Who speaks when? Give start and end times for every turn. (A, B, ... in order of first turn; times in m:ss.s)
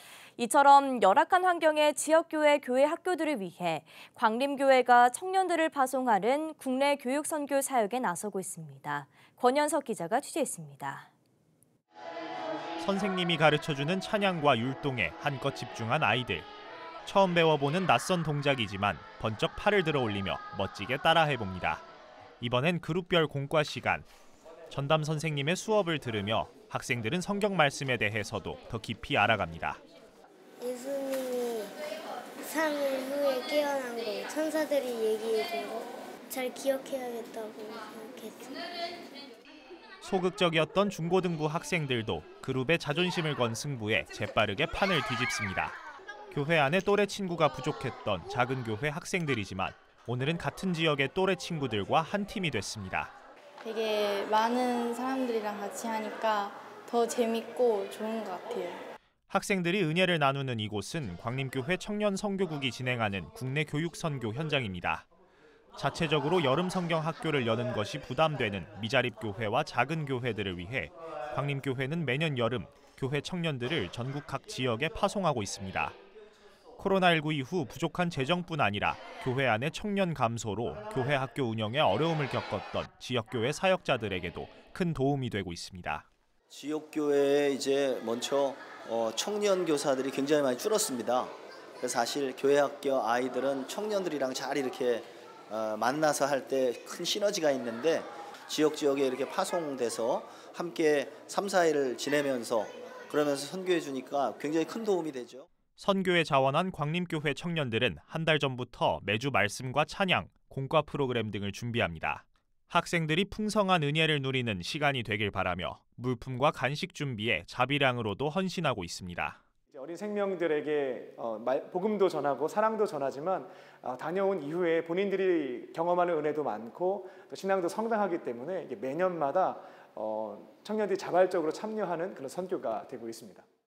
0:00.4-0:11.1 A
0:12.8-0:16.5 B
0:17.0-0:21.8 B
0:22.4-0:24.1 B
0:24.7-0:29.8 B
0:30.6-0:31.7 C
0:32.4-0:38.7 C
0:40.0-0:45.8 B
0:46.3-0:53.1 B
0:53.6-0:58.8 D
0:59.3-1:05.1 B
1:05.8-1:16.0 B
1:16.8-1:26.0 B
1:26.5-1:45.4 E
1:45.8-1:59.4 B
1:59.7-2:13.4 F